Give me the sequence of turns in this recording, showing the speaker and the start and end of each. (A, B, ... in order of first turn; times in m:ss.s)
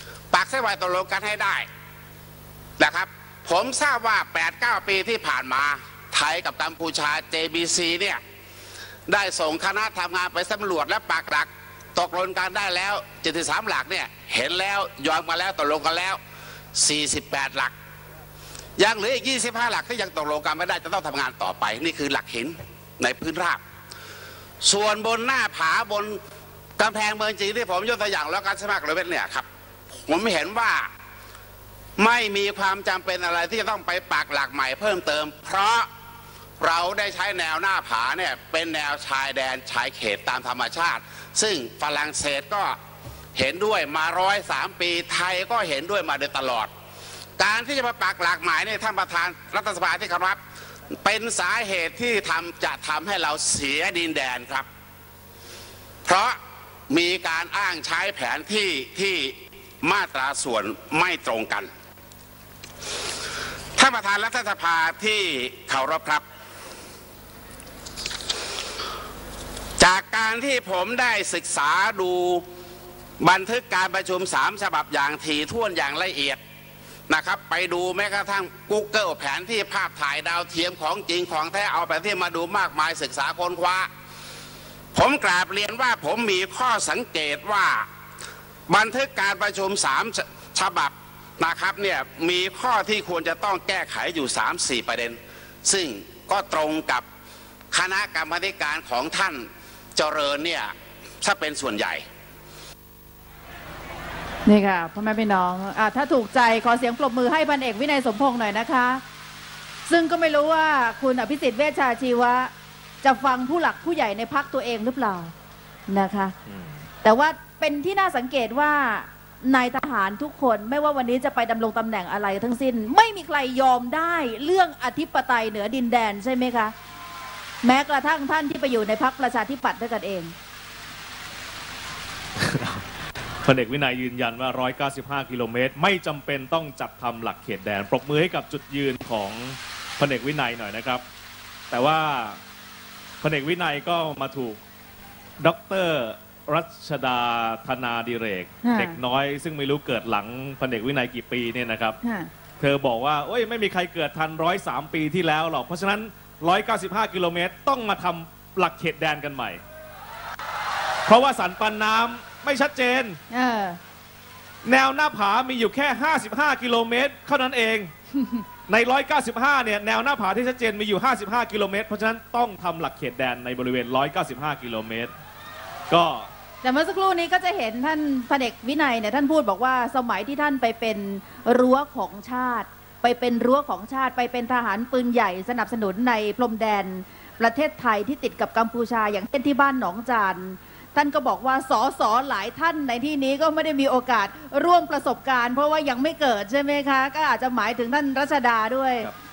0:00.3-0:01.7 A
0:02.8-0:08.2 A
0:09.1-0:16.2 A
0:16.8-0:17.7 A
0:18.8-0:23.6 A
0:24.6-0:26.2 A
0:26.8-0:29.5 A
0:30.1-0:30.9 A
0:32.0-0:35.9 A
0:36.6-0:42.8 A
0:43.4-0:46.7 A
0:47.4-0:50.4 A
0:51.0-0:54.7 A
0:56.1-0:56.4 A
0:56.9-1:01.7 A
1:03.8-1:06.2 A
1:09.8-1:12.4 A
1:13.2-1:16.4 A
1:17.1-1:23.9 A
1:24.9-1:27.8 A
1:28.7-1:37.0 A
1:37.7-1:42.0 A
1:44.4-1:49.0 B
1:49.9-1:52.5 B
1:53.0-1:55.3 B
1:55.9-1:56.3 B
1:56.5-1:56.8 C
1:57.0-2:06.7 B
2:07.6-2:10.3 B
2:12.4-2:12.8 C
2:13.4-2:21.0 C
2:21.7-2:22.4 C
2:23.2-2:24.6 C
2:25.4-2:32.0 C
2:28.6-2:29.0 B
2:32.0-2:32.3 B
2:32.6-2:39.6 C
2:41.1-2:43.2 C
2:43.3-2:43.8 B
2:44.6-2:47.9 C
2:48.7-2:55.1 C
2:55.9-2:56.3 C
2:56.6-3:19.1 B